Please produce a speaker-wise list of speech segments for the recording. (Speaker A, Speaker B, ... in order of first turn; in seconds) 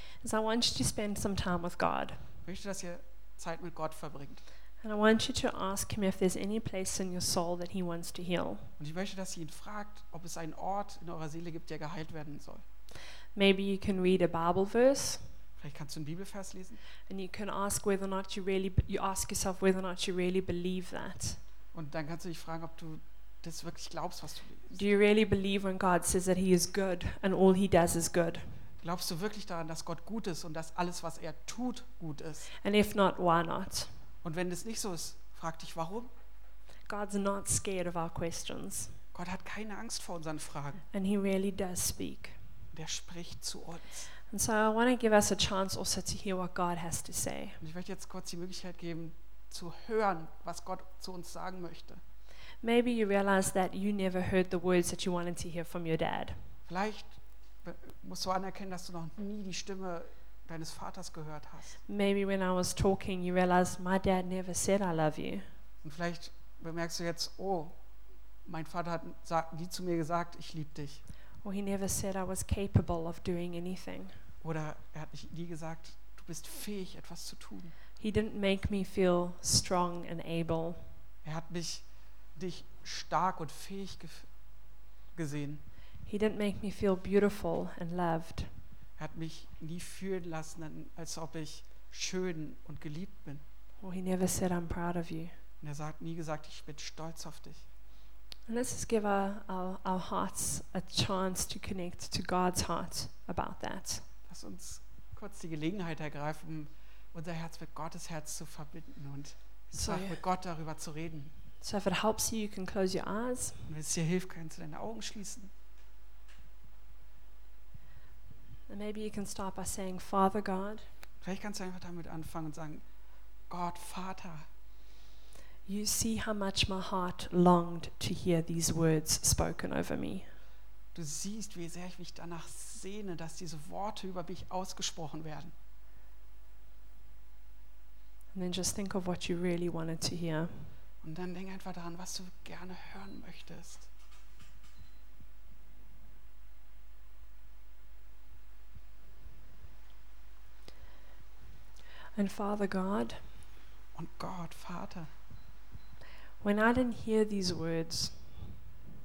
Speaker A: 0.2-2.2, 4.8-8.7, 13.3-15.3, 17.1-21.4, 24.7-28.5, 32.6-33.9, 36.9-39.0, 40.9-42.4, 44.3-47.6, 52.6-56.4, 61.9-65.5, 71.4-74.2, 78.0-80.9, 86.0-88.5, 93.8-95.3, 98.5-104.0, 109.7-110.2, 111.6-113.7, 118.7-120.9, 125.7-130.3, 138.3-140.7, 152.1-153.3, 156.4-158.5
Speaker B: 2.4-4.4, 8.8-12.6, 15.6-16.8, 21.7-24.8, 28.8-32.5, 34.2-36.1, 39.1-40.9, 42.7-44.1, 47.6-52.0, 56.7-61.8, 65.8-67.8, 68.5-71.0, 74.4-77.7, 81.2-84.3, 85.1-85.6, 89.0-93.4, 95.6-97.7, 104.3-111.3, 113.7-115.5, 121.2-122.8, 123.5-124.5, 130.9-135.5, 141.0-143.9, 153.9-155.1